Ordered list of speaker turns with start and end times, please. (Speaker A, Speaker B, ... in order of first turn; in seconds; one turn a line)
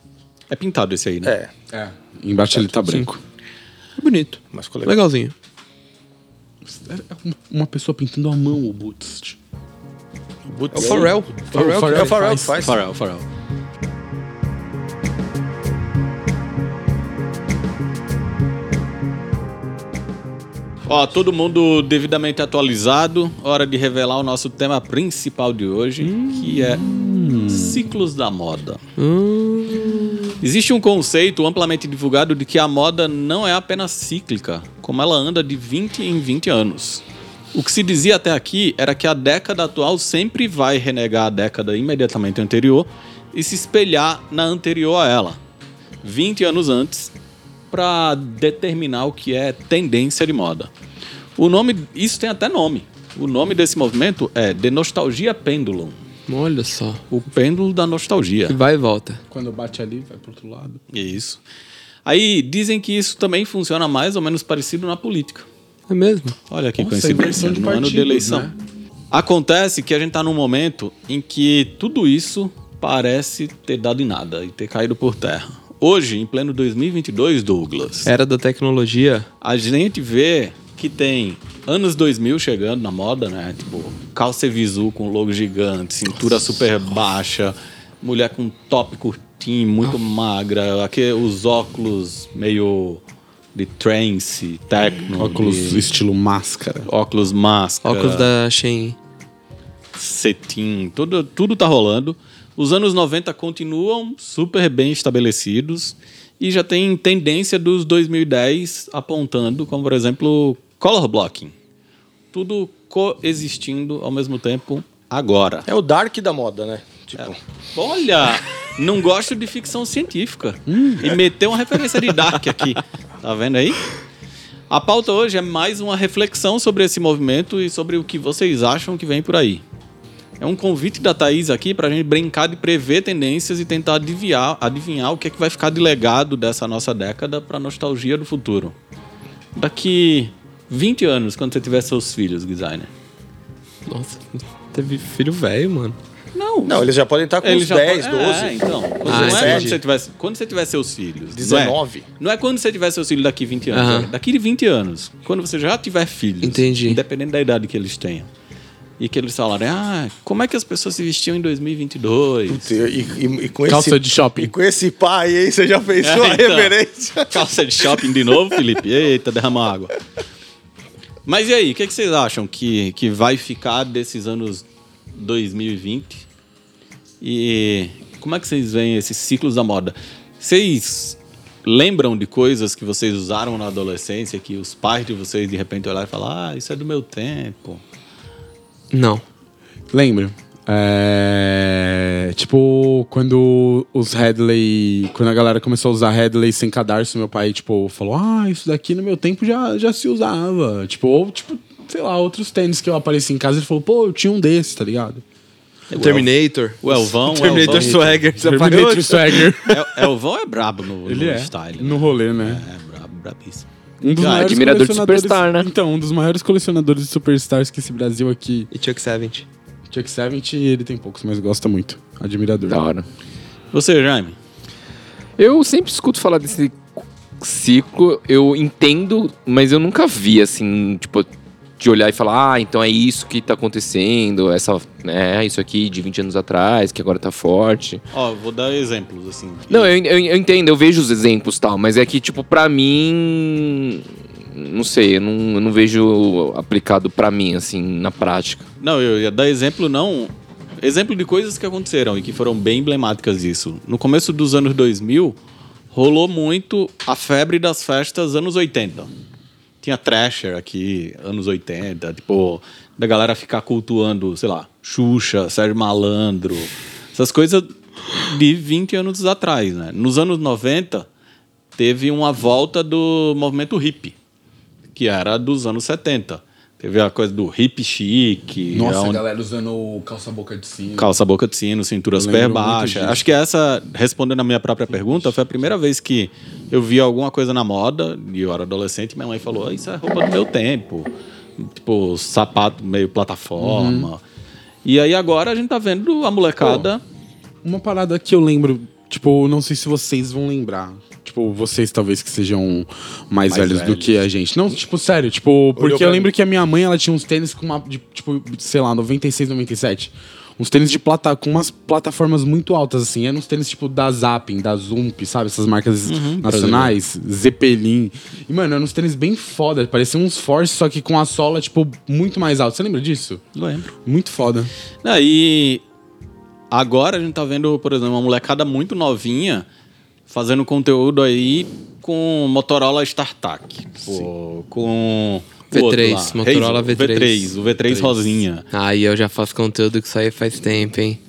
Speaker A: 0.5-1.4
Speaker B: 1.2-1.5
Speaker C: 1.7-3.2
Speaker D: 2.8-3.1
Speaker D: 4.0-5.3
Speaker B: 4.5-5.0
Speaker C: 6.7-9.4
Speaker B: 10.5-11.2
Speaker D: 10.7-12.2
Speaker C: 10.7-12.6
Speaker B: 11.7-12.8
Speaker A: 12.6-13.2
Speaker A: 20.9-28.8
Speaker D: 26.0-26.4
Speaker C: 26.6-27.8
Speaker D: 29.0-30.2
Speaker A: 30.4-37.0
Speaker A: 37.5-45.4
Speaker A: 46.0-47.1
Speaker A: 47.7-50.7
Speaker A: 51.4-56.0
Speaker D: 56.3-57.0
Speaker A: 57.1-58.6
Speaker D: 58.5-59.2
Speaker C: 59.3-60.8
Speaker A: 60.9-61.4
Speaker A: 62.1-65.5
Speaker D: 65.9-66.4
Speaker A: 66.5-68.5
Speaker C: 66.8-68.5
Speaker A: 69.1-78.1
Speaker D: 78.0-79.3
Speaker A: 79.4-93.0
Speaker A: 93.5-95.9
Speaker C: 95.2-96.9
Speaker A: 96.9-98.3
Speaker D: 97.8-99.0
Speaker A: 100.0-111.5
Speaker A: 112.3-115.7
Speaker B: 115.7-117.4
Speaker A: 117.2-123.9
Speaker C: 120.7-121.1
Speaker A: 124.7-129.6
Speaker A: 130.4-138.8
Speaker A: 139.6-142.9
Speaker D: 143.9-146.0
Speaker A: 146.3-158.3
Speaker B: 146.7-149.8
Speaker D: 149.1-149.8
Speaker B: 151.3-152.1
Speaker D: 153.7-154.1
Speaker D: 156.4-157.0
Speaker A: 159.0-162.8
Speaker B: 162.5-168.6
Speaker C: 163.7-164.5
Speaker A: 166.0-170.0
Speaker A: 171.2-176.2
Speaker A: 177.2-187.8
Speaker D: 188.9-189.2
Speaker C: 189.9-205.2
Speaker A: 205.9-206.3
Speaker D: 205.9-209.7
Speaker A: 206.8-208.2
Speaker C: 207.4-210.1
Speaker A: 209.7-213.7
Speaker C: 211.1-212.6
Speaker C: 214.0-218.7
Speaker A: 214.2-214.6
Speaker E: 214.2-215.7
Speaker D: 218.7-219.5
Speaker C: 219.9-222.8
Speaker E: 222.7-223.1
Speaker A: 223.7-224.4
Speaker E: 225.4-226.8
Speaker E: 227.4-238.0
Speaker A: 238.1-239.9
Speaker E: 239.7-248.7
Speaker A: 248.8-255.4
Speaker A: 255.9-259.1
Speaker A: 259.8-271.1
Speaker A: 271.8-274.1
Speaker A: 274.9-279.2
Speaker C: 278.7-281.1
Speaker A: 281.0-294.2
Speaker C: 282.2-283.2
Speaker C: 293.6-294.1
Speaker A: 294.9-297.0
Speaker C: 297.6-323.4
Speaker A: 303.5-304.2
Speaker B: 305.8-306.3
Speaker A: 316.1-317.0
Speaker A: 323.6-323.9
Speaker C: 324.0-324.7
Speaker A: 325.0-325.8
Speaker A: 326.7-329.7
Speaker A: 330.3-338.7
Speaker D: 335.7-337.6
Speaker C: 337.9-338.3
Speaker D: 338.7-341.2